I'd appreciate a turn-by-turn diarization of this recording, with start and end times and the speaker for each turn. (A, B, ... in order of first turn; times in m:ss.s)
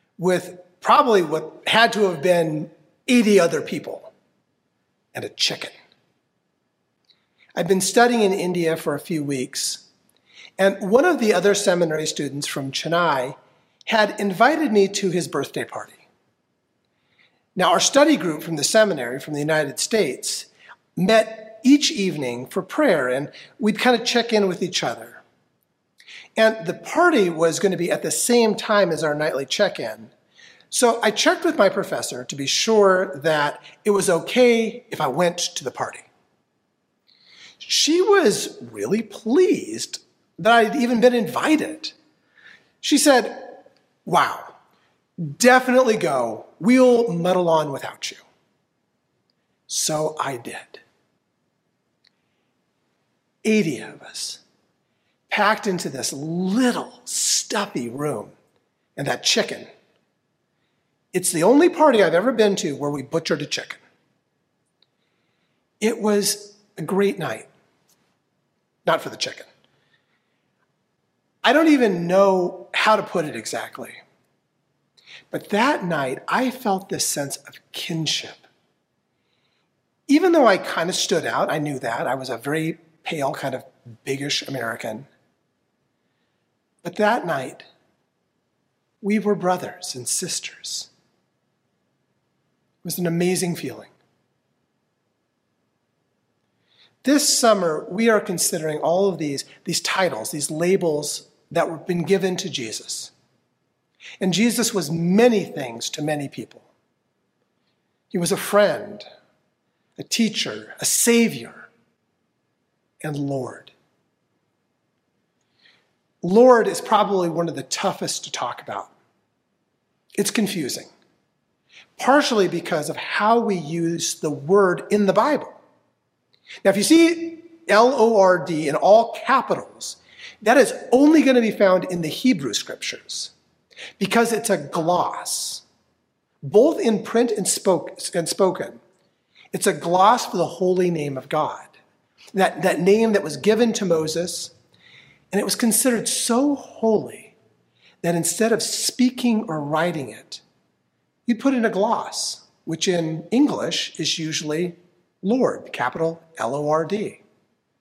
0:00.2-0:04.1 A
0:05.2-0:05.8 A
0:07.6-0:09.8 A
0:10.6-0:13.4 A
0:13.9-0:16.0 A
0:17.6-0:25.2 A
0:26.4-0:30.1 A
0:30.7-0:36.1 A
0:37.6-0:41.9 A
0:42.8-0:44.6 A
0:45.2-0:48.2 A
0:49.7-0:50.8 A
0:53.4-0:54.4 A
0:55.3-0:58.3 A
0:59.0-0:59.7 A
1:01.1-1:03.8 A
1:05.8-1:07.5 A
1:08.9-1:09.5 A
1:11.4-1:14.0 A
1:15.3-1:18.4 A
1:20.1-1:25.1 A
1:26.8-1:27.7 A
1:29.0-1:30.9 A
1:32.8-1:33.9 A
1:37.0-1:43.1 A
1:44.2-1:46.7 A
1:48.1-1:49.0 A
1:50.0-1:51.7 A
1:53.0-1:53.7 A
1:56.2-1:58.9 A
2:00.2-2:00.9 A
2:02.0-2:05.6 A
2:06.6-2:13.3 A
2:14.0-2:15.6 A
2:16.4-2:18.8 A
2:19.5-2:21.7 A
2:22.3-2:24.5 A
2:25.3-2:27.4 A
2:28.0-2:30.4 A
2:31.3-2:37.2 A